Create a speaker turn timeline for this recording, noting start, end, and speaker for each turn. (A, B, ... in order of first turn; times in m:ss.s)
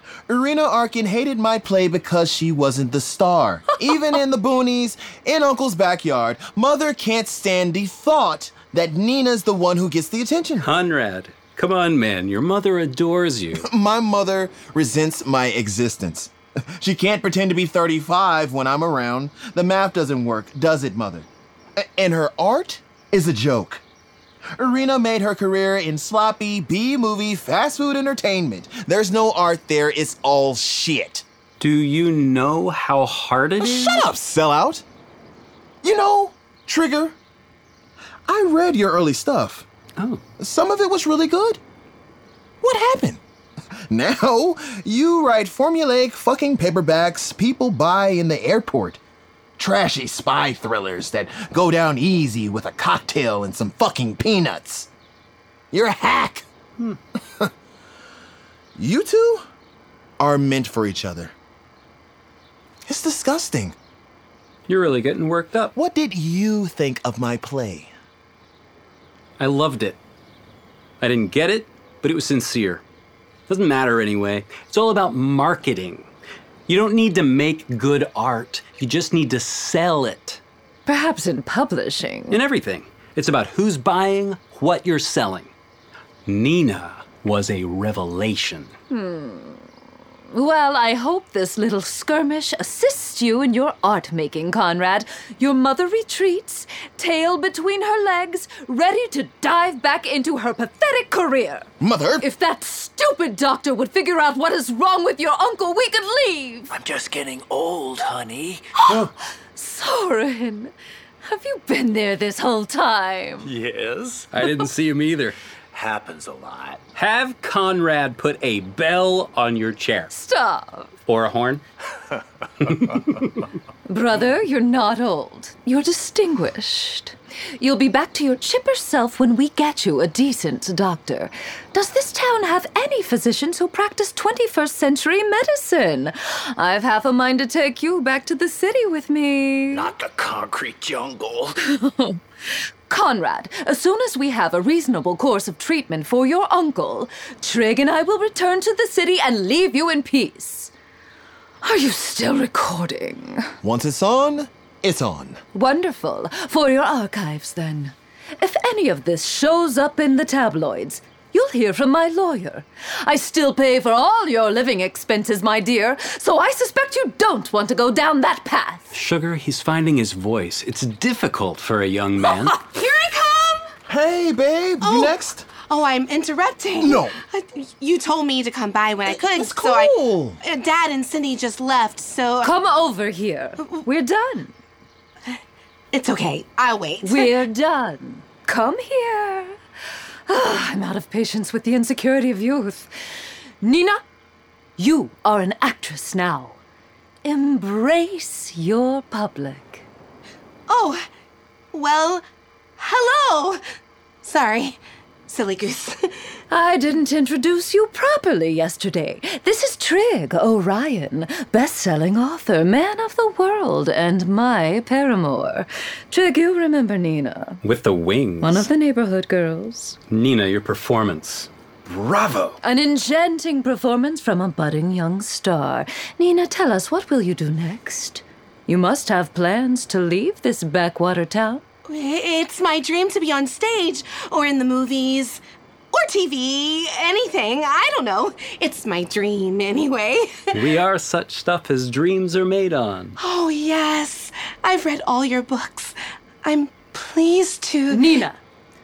0:00.3-0:10.7 A
0:10.6-0:13.7 B
0:13.5-0:23.8 A
0:24.6-0:31.2 A
0:31.6-0:34.1 B
0:33.6-0:34.8 A
0:35.8-0:37.2 A
0:38.3-0:39.7 A
0:40.4-0:41.6 A
0:42.6-0:43.2 A
0:43.9-0:49.0 A
0:49.6-0:54.9 A
0:55.7-0:56.4 A
0:58.8-0:59.4 A
1:00.2-1:01.3 A
1:02.8-1:03.8 A
1:04.7-1:05.7 B
1:05.7-1:07.9 A
1:09.4-1:10.0 B
1:11.0-1:12.8 B
1:13.5-1:16.1 B
1:16.7-1:20.4 B
1:20.8-1:22.4 C
1:22.3-1:25.5 B
1:26.2-1:28.7 B
1:28.9-1:29.6 C
1:30.3-1:41.7 C
1:41.8-1:42.2 A
1:42.2-1:46.7 C
1:46.7-1:48.8 D
1:48.8-1:50.7 C
1:51.2-1:53.5 C
1:53.4-1:54.3 D
1:54.3-1:55.4 B
1:55.7-1:56.8 D
1:57.0-2:00.1 B
2:00.1-2:00.9 C
2:01.0-2:01.6 B
2:02.7-2:03.3 B
2:03.9-2:19.9 C
2:19.7-2:21.6 D
2:21.6-2:22.2 C
2:22.9-2:30.7 C
2:31.6-2:33.5 C
2:33.6-2:35.4 A
2:35.5-2:49.0 C
2:48.9-2:52.6 B
2:52.6-2:53.7 E
2:53.9-2:55.5 A
2:54.8-3:02.5 E
2:56.8-2:57.2 A
2:59.1-3:00.4 A
3:02.4-3:04.5 C
3:05.9-3:07.3 E
3:07.0-3:09.6 C
3:10.3-3:12.9 C
3:13.6-3:14.0 C
3:14.8-3:16.6 C
3:17.2-3:19.8 C
3:20.7-3:21.0 E
3:21.7-3:22.2 E
3:22.8-3:23.6 E
3:24.2-3:26.2 E
3:26.5-3:37.6 C
3:37.6-3:38.7 B
3:38.4-3:40.0 C
3:40.1-3:41.5 B
3:41.9-3:42.6 D
3:42.6-3:51.6 C
3:51.9-3:55.4 E
3:55.9-4:00.6 E
4:00.5-4:03.2 B
4:03.2-4:08.2 E
4:07.9-4:08.4 C